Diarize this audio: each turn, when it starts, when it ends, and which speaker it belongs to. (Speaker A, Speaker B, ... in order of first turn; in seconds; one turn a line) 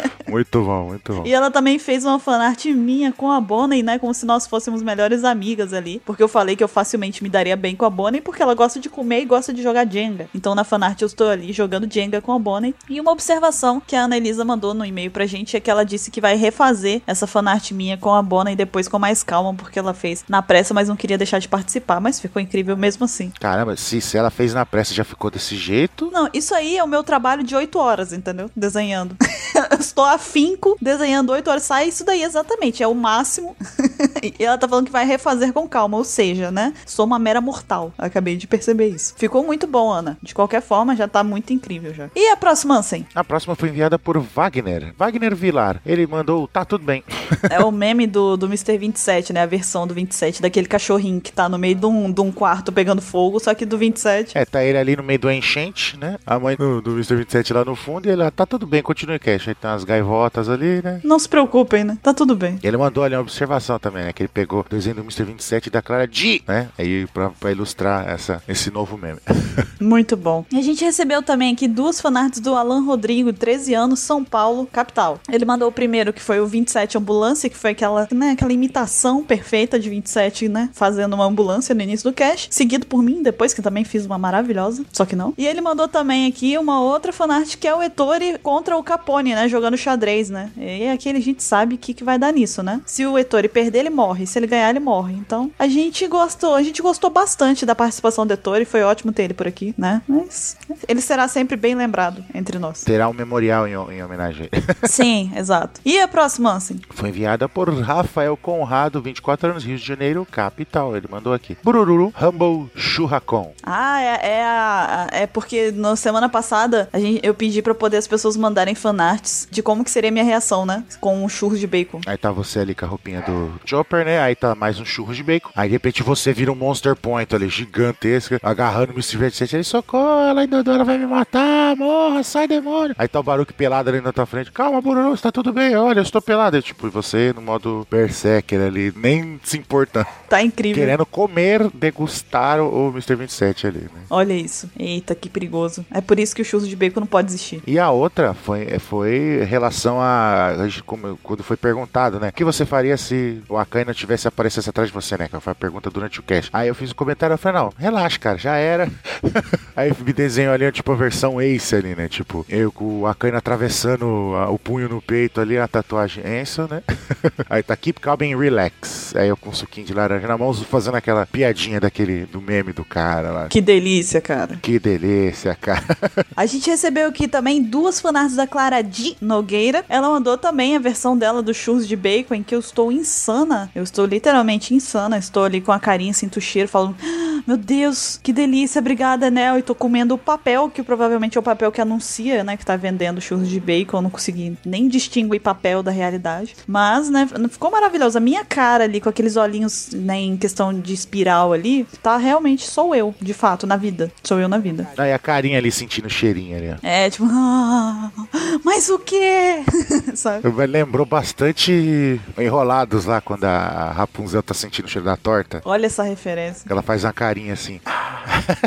Speaker A: 0.2-1.3
Speaker B: 1.2-23.3
Speaker A: 23.4-26.1
Speaker B: 26.1-43.1
Speaker A: 43.1-47.1
Speaker B: 47.5-54.4
Speaker A: 54.3-61.0
Speaker B: 61.0-62.6
Speaker A: 62.6-69.7
Speaker B: 69.8-102.8
Speaker A: 102.8-104.9
Speaker B: 104.8-106.8
Speaker A: 106.9-113.5
Speaker B: 113.6-122.0
Speaker A: 122.0-140.1
Speaker B: 140.3-140.9
Speaker A: 140.7-144.1
Speaker B: 144.1-147.6
Speaker A: 147.6-173.5
Speaker B: 173.5-174.6
Speaker A: 174.6-176.2
Speaker B: 176.3-204.9
Speaker A: 204.9-206.8
Speaker B: 206.8-210.4
Speaker A: 210.4-215.6
Speaker B: 215.6-216.7
Speaker A: 216.7-217.8